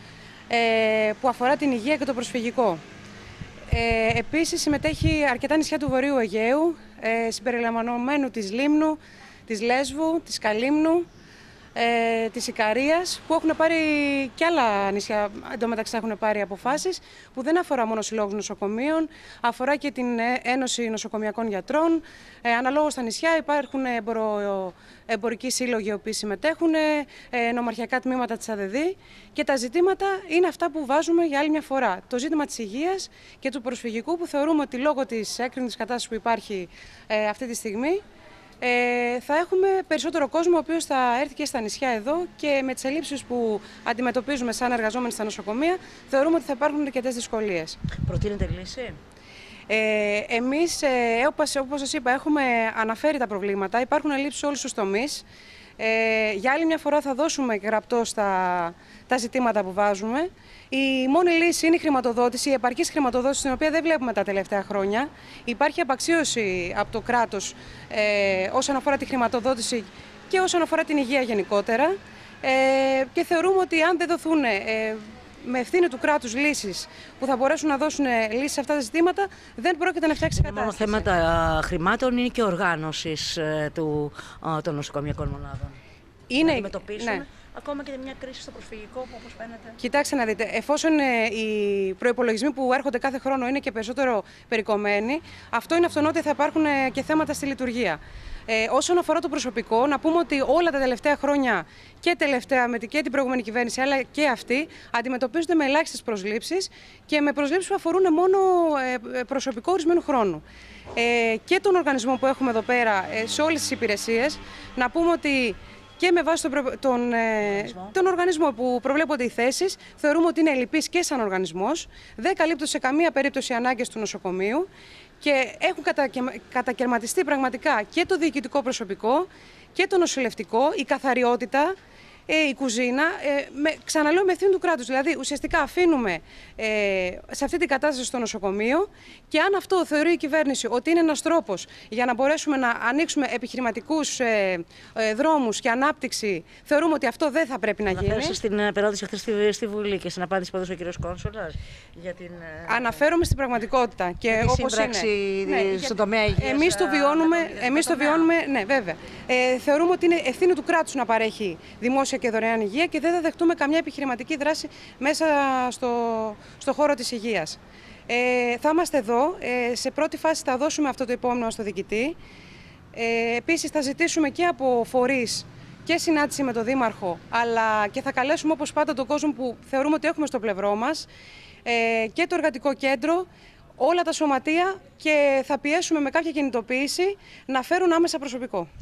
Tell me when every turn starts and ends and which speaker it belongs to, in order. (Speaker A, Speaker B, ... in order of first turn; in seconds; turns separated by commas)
Speaker A: 0.5-2.8, Speaker A: 3.7-11.0, Speaker A: 11.7-38.0, Speaker A: 38.6-47.8, Speaker B: 48.0-49.0, Speaker A: 49.7-55.2, Speaker A: 55.8-81.1, Speaker B: 80.3-85.8, Speaker A: 86.3-87.2, Speaker B: 86.4-89.8, Speaker A: 89.8-110.4, Speaker A: 111.0-124.7, Speaker B: 117.4-117.9, Speaker A: 125.2-131.8, Speaker A: 132.3-148.4, Speaker B: 147.9-153.0, Speaker A: 152.7-167.6, Speaker B: 154.3-158.3, Speaker A: 168.1-172.2, Speaker A: 172.9-181.1, Speaker A: 181.7-183.3, Speaker A: 183.8-188.7